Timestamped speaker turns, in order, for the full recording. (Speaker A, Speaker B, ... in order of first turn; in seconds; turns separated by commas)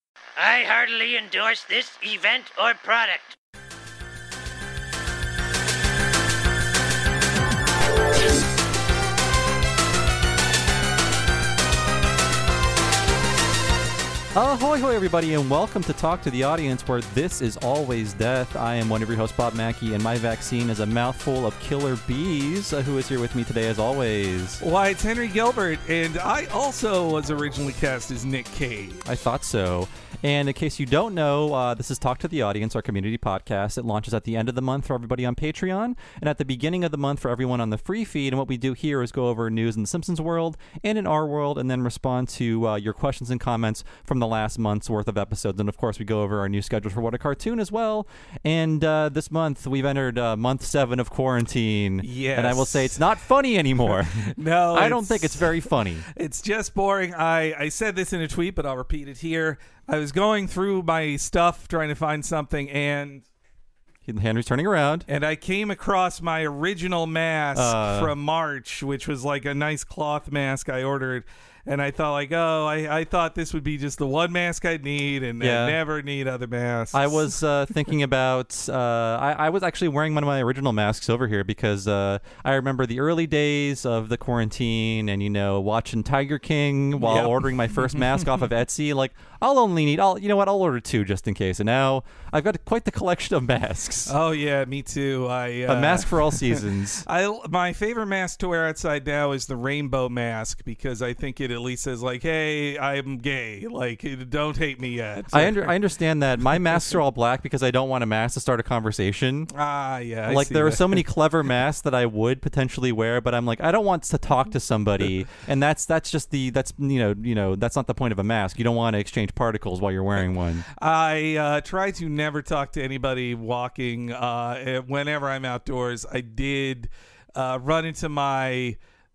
Speaker A: 0.4-3.3, Speaker B: 14.3-24.6, Speaker C: 24.6-29.0, Speaker B: 29.1-56.0, Speaker C: 52.0-53.1, Speaker C: 53.9-63.2, Speaker B: 64.0-65.1, Speaker C: 65.1-77.3, Speaker B: 67.5-68.1, Speaker B: 75.4-75.8, Speaker B: 76.9-94.1, Speaker C: 87.0-88.4, Speaker C: 94.1-105.7, Speaker B: 95.7-97.0, Speaker B: 105.3-109.5, Speaker C: 109.5-111.0, Speaker B: 110.3-120.7, Speaker C: 120.2-128.8